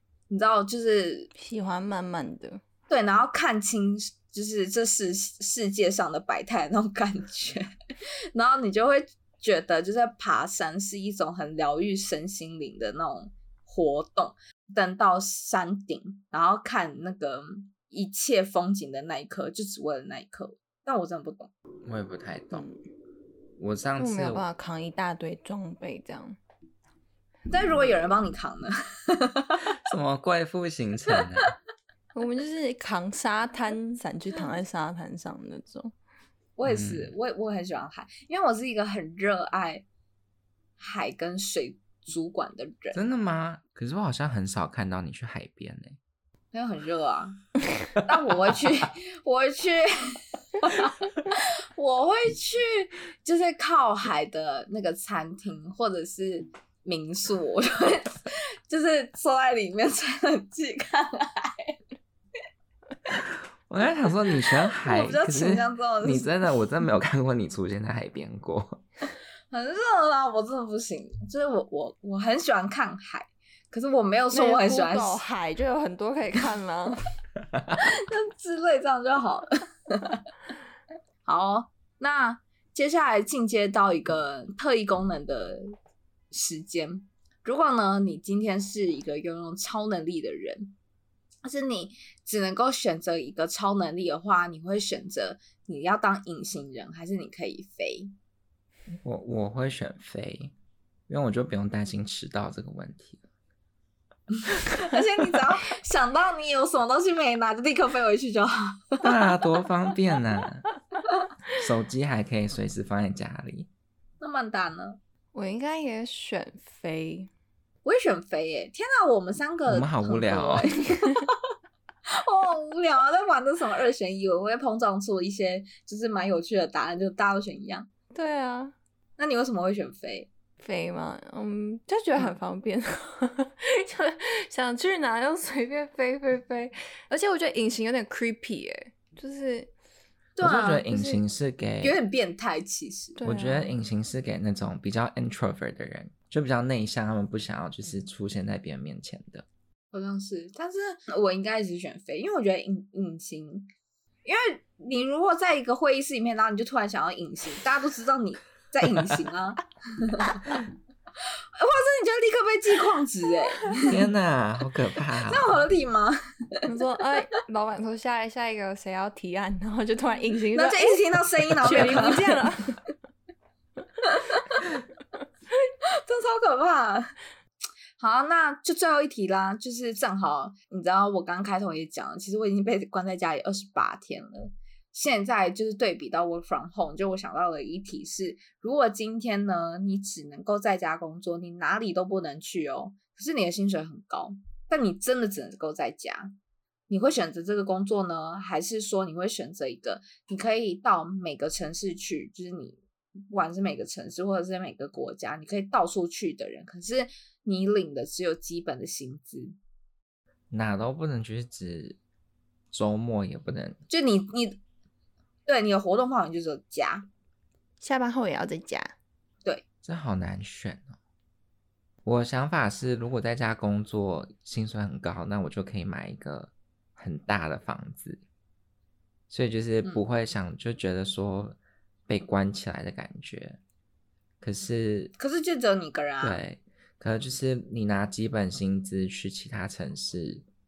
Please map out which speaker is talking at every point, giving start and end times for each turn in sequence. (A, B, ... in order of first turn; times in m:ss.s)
0:00.3-0:01.3 A
0:01.4-0:02.6 B
0:02.9-0:07.7 A
0:08.3-0:21.5 A
0:21.9-0:22.7 C
0:22.5-0:22.8 B
0:23.6-0:24.4 C
0:24.0-0:26.4 B
0:27.5-0:29.6 A
0:29.7-0:31.5 C
0:32.1-0:35.9 B
0:36.6-0:39.8 A
0:36.6-0:37.1 C
0:40.8-0:43.0 A
0:42.9-0:46.0 C
0:46.5-0:47.4 A
0:47.9-1:01.8 A
1:03.7-1:08.8 C
1:04.8-1:06.3 A
1:09.5-1:15.2 A
1:14.3-1:17.0 B
1:17.8-1:20.2 A
1:21.2-1:25.7 A
1:26.3-1:30.8 A
1:31.4-1:38.1 A
1:38.9-1:40.5 C
1:41.1-1:43.2 C
1:44.3-1:49.3 A
1:49.0-1:50.6 C
1:51.5-1:53.7 C
1:54.2-1:55.0 A
1:55.3-1:57.3 B
1:57.8-2:01.4 A
1:59.7-2:00.7 C
2:00.9-2:01.2 B
2:02.1-2:07.9 A
2:08.1-2:08.7 B
2:09.2-2:10.3 A
2:10.6-2:19.7 B
2:20.4-2:21.2 A
2:20.4-2:22.0 C
2:21.8-2:23.2 A
2:23.2-2:23.7 B
2:23.2-2:29.5 C
2:29.9-2:33.7 A
2:34.2-2:40.4 A
2:41.6-2:44.0 A
2:43.9-2:45.6 C
2:45.1-2:46.7 A
2:46.7-2:51.0 B
2:50.5-2:52.5 A
2:51.6-2:52.8 B
2:51.7-2:52.0 C
2:54.1-2:54.7 A
2:55.7-2:57.2 A
2:58.0-3:16.4 A
3:16.9-3:29.6 A
3:30.5-3:32.0 C
3:32.7-3:33.8 C
3:33.9-3:34.6 A
3:35.5-3:37.1 A
3:37.8-3:38.9 B
3:39.8-3:41.0 C
3:42.0-3:48.2 C
3:49.3-3:53.6 C
3:54.4-3:55.1 C
3:55.2-3:56.4 A
3:56.2-4:00.5 C